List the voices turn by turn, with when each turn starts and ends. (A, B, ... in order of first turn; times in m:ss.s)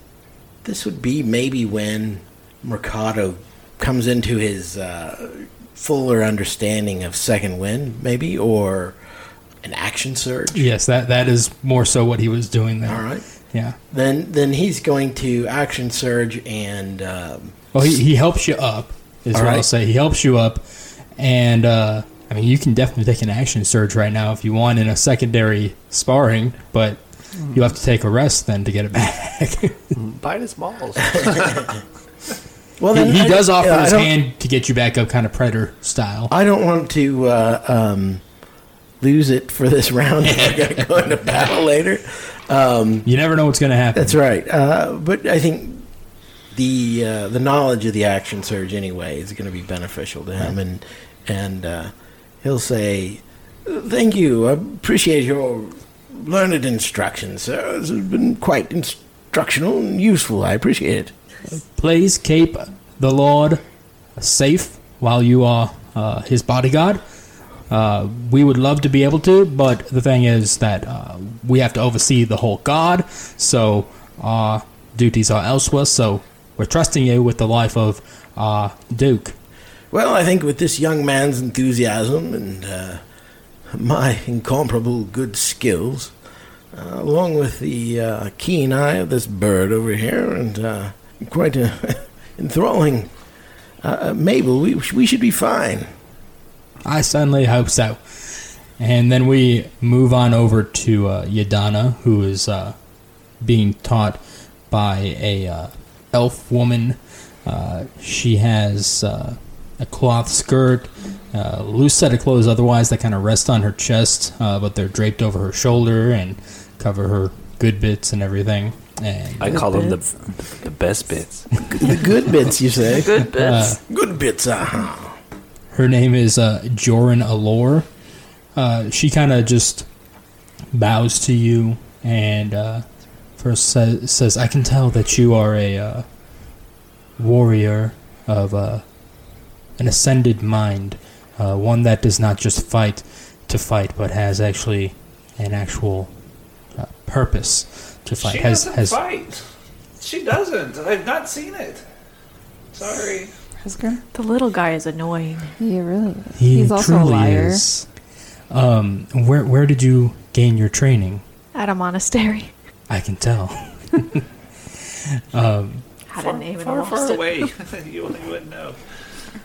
0:00.6-0:09.0 A
0:09.6-0:10.6 A
0:10.5-0:13.8 B
0:12.9-0:13.2 A
0:13.9-0:17.6 A
0:17.7-0:20.6 B
0:19.3-0:19.6 A
0:21.2-0:29.9 B
0:29.9-0:31.7 C
0:32.8-0:34.1 A
0:32.9-0:36.3 B
0:36.3-0:38.2 A
0:39.0-0:43.1 A
0:40.2-0:40.7 B
0:43.1-0:44.2 B
0:44.0-0:45.9 A
0:46.5-0:51.9 A
0:52.4-1:01.1 A
1:01.5-1:03.6 B
1:04.2-1:07.0 B
1:07.7-1:19.4 B
1:19.9-1:23.0 A
1:23.7-1:26.1 A
1:26.7-1:33.1 A
1:33.8-1:35.9 A
1:36.8-1:42.8 B
1:43.4-1:59.6 B
1:59.4-2:01.9 C
1:59.5-2:00.0 D
2:01.7-2:03.2 A
2:02.9-2:03.8 D
2:03.3-2:03.8 B
2:03.8-2:05.1 A
2:05.7-2:07.9 B
2:08.6-2:09.9 B
2:10.7-2:12.8 B
2:13.4-2:16.0 B
2:17.2-2:18.8 B
2:19.8-2:26.1 B
2:26.8-2:29.0 B
2:28.1-2:29.4 C
2:30.0-2:31.8 C
2:32.7-2:33.3 C
2:33.6-2:34.0 E
2:34.1-2:35.5 D
2:35.6-2:37.6 E
2:36.4-2:37.9 B
2:38.5-2:41.2 B
2:41.6-2:42.5 D
2:42.9-2:44.2 B
2:44.9-2:45.8 B
2:46.1-2:47.5 D
2:46.2-2:48.8 C